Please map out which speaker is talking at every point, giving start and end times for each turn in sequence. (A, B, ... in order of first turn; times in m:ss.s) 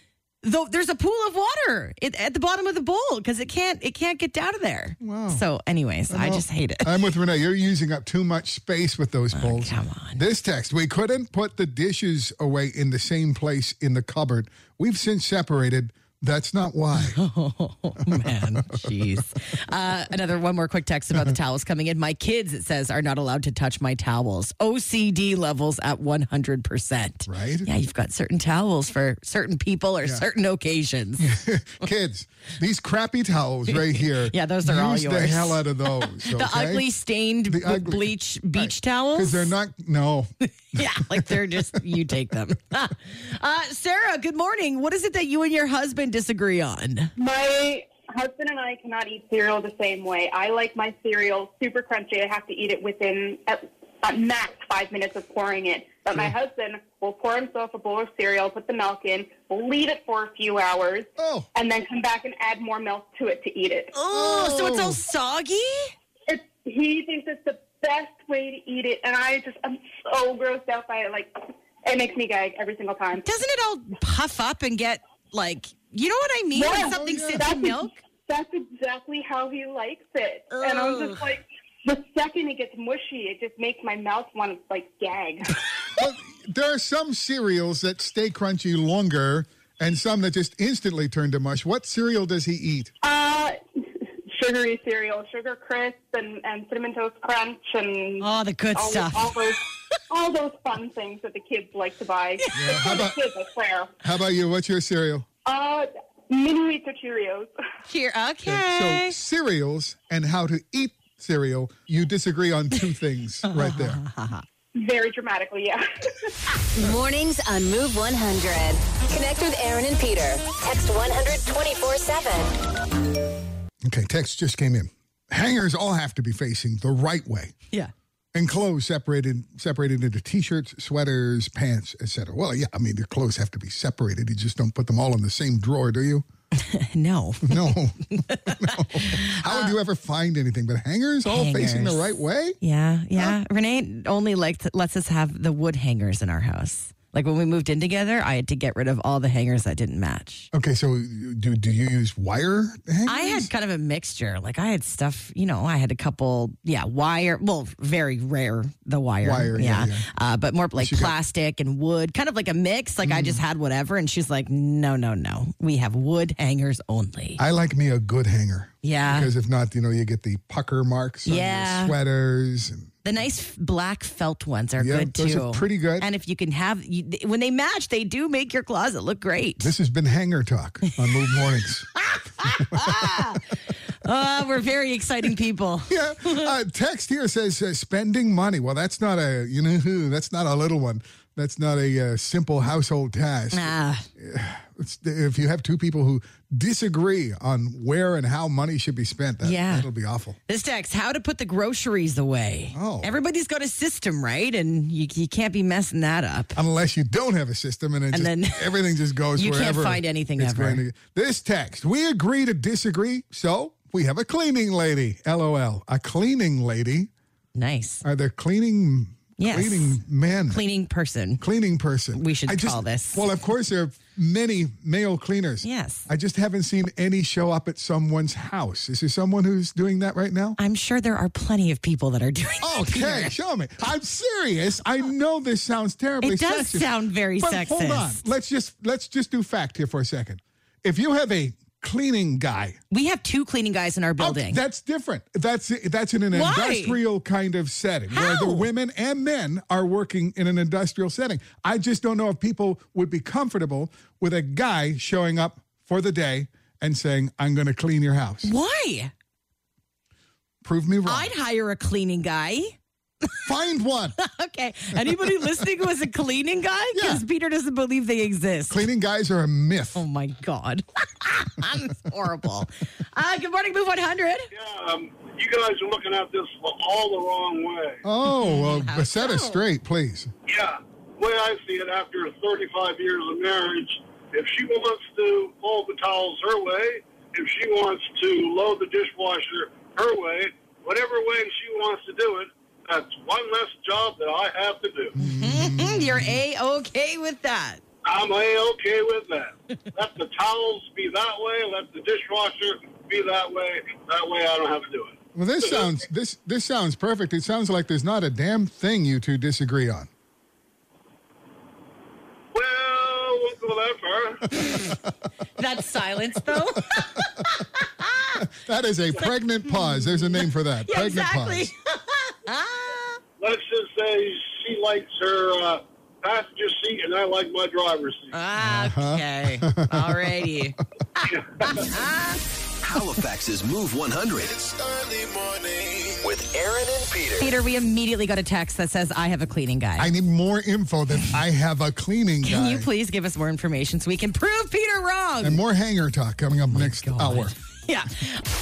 0:00.4-0:07.0 A
0:05.0-0:05.4 B
0:06.1-0:17.2 B
0:09.3-0:10.2 A
0:17.0-0:31.4 A
0:18.0-0:18.9 B
0:27.3-0:27.7 B
0:31.2-0:36.9 B
0:33.7-0:39.5 A
0:37.5-0:41.5 B
0:40.7-0:47.1 A
0:47.2-1:03.9 C
1:01.2-1:01.5 B
1:03.9-1:05.9 A
1:04.1-1:05.0 B
1:06.3-1:11.3 C
1:11.8-1:13.3 C
1:13.2-1:17.9 A
1:16.6-1:25.6 C
1:16.8-1:17.4 B
1:20.5-1:21.2 A
1:26.0-1:32.9 B
1:33.0-1:33.6 C
1:34.3-1:43.9 C
1:38.2-1:39.4 A
1:42.4-1:43.0 A
1:42.5-1:43.2 B
1:44.0-1:45.3 B
1:45.5-1:47.5 C
1:47.9-1:49.2 A
1:48.4-1:54.0 B
1:53.5-1:54.4 A
1:54.8-1:56.3 C
1:56.7-2:02.6 D
2:03.8-2:07.6 B
2:08.3-2:16.2 B
2:16.5-2:19.8 A
2:17.4-2:22.6 B
2:21.2-2:30.5 A
2:30.5-2:33.5 B
2:33.1-2:47.4 A
2:39.2-2:40.1 B
2:40.8-2:41.1 B
2:43.0-2:43.4 B
2:47.4-2:52.9 B
2:48.8-2:49.3 A
2:51.3-2:52.0 A
2:53.0-2:59.7 A
2:54.8-2:56.1 B
2:59.6-3:03.4 B
3:02.0-3:06.5 A
3:05.9-3:20.4 B
3:13.5-3:14.1 A
3:19.4-3:19.9 A
3:20.5-3:26.6 A
3:22.7-3:23.2 B
3:26.6-3:37.1 B
3:28.1-3:30.8 A
3:37.6-3:38.0 A
3:38.0-3:40.6 B
3:39.4-3:41.4 A
3:41.4-3:50.6 B
3:42.1-3:43.3 A
3:45.6-3:46.1 A
3:50.6-3:53.3 A
3:52.6-4:02.8 B
3:56.2-3:58.2 A
4:02.9-4:04.6 A
4:04.2-4:18.5 B
4:06.3-4:07.0 A
4:08.1-4:08.7 A
4:18.4-4:19.1 A
4:20.6-4:21.3 B
4:21.1-4:22.8 A
4:23.4-4:24.2 B
4:24.2-4:28.8 A
4:26.9-4:27.2 B
4:28.7-4:30.0 B
4:30.0-4:34.5 A
4:34.5-4:38.0 E
4:38.0-4:40.3 B
4:38.3-4:39.6 A
4:40.5-4:55.2 E
4:55.2-4:56.4 B
4:55.2-4:57.8 A
4:58.1-5:06.0 E
5:05.4-5:10.1 B
5:12.5-5:14.6 E
5:14.6-5:14.9 A
5:15.6-5:18.4 A
5:16.8-5:17.6 B
5:18.4-5:21.7 B
5:19.2-5:23.2 A
5:23.4-5:28.4 E
5:28.3-5:32.4 A
5:28.6-5:30.5 B
5:31.2-5:31.9 E
5:32.8-5:37.5 F
5:37.4-5:40.1 A
5:40.0-5:42.9 B
5:42.4-5:45.6 A
5:45.4-5:47.6 B
5:46.7-5:48.4 A